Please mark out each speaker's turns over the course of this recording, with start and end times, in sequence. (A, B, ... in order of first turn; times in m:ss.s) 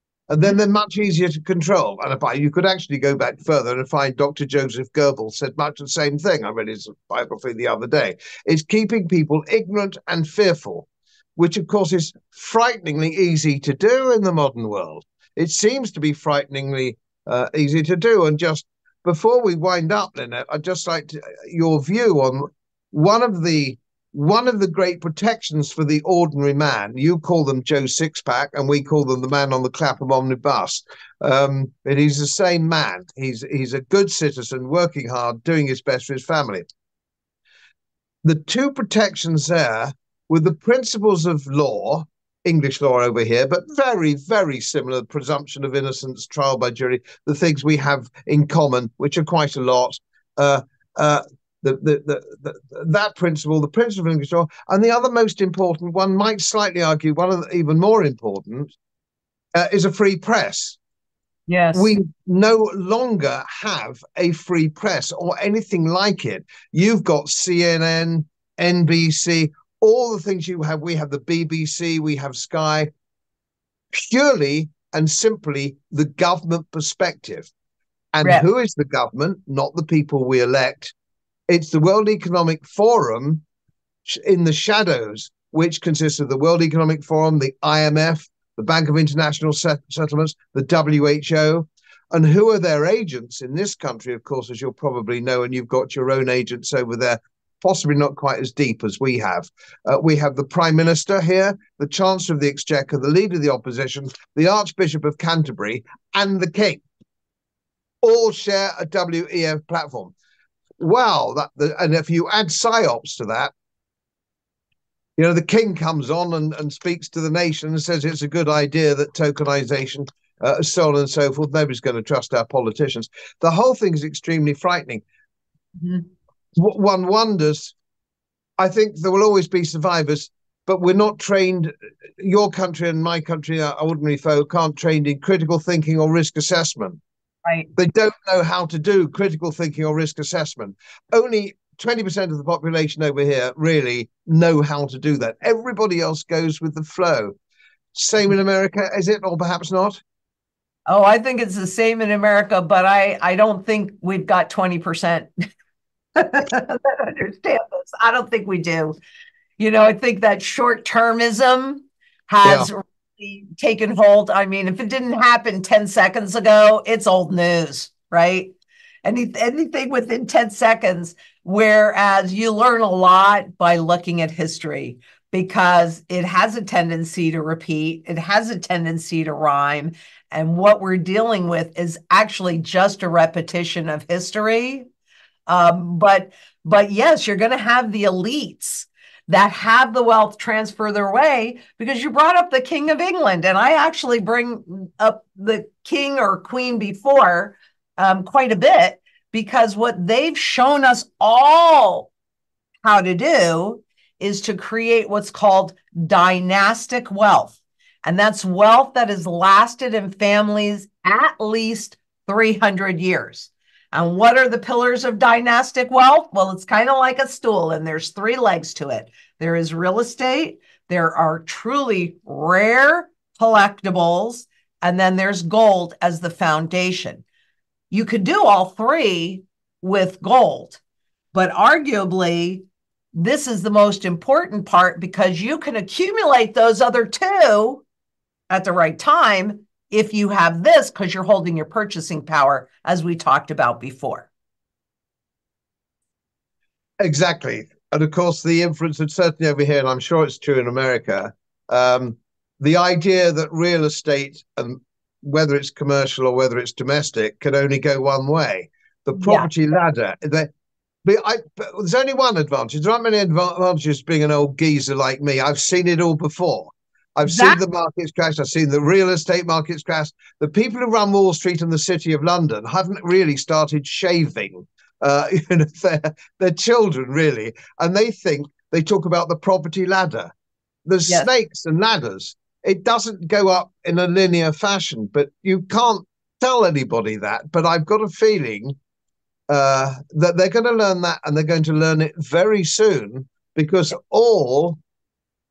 0:00.3-0:36.6 A
0:38.2-0:58.8 A
0:59.5-1:00.8 A
1:01.5-1:01.9 B
1:01.7-1:12.9 A
1:13.9-1:17.5 A
1:18.1-1:20.9 A
1:21.5-1:23.4 A
1:24.1-1:46.8 A
1:48.0-1:50.1 A
1:50.8-1:53.5 A
1:55.2-2:05.0 A
2:05.8-2:06.0 B
2:06.6-2:07.8 A
2:08.6-2:17.0 A
2:17.4-2:17.7 B
2:17.8-2:27.4 A
2:28.0-2:30.0 A
2:30.9-2:35.3 B
2:36.2-2:39.0 B
2:39.6-3:04.9 B
3:05.5-3:22.1 B
3:22.8-3:47.2 B
3:47.9-3:50.8 B
3:51.3-3:57.8 B
3:58.5-4:04.3 B
4:07.0-4:20.5 A
4:19.2-4:19.5 B
4:21.0-4:40.3 A
4:27.2-4:27.6 B
4:40.9-4:48.8 A
4:49.5-4:54.8 A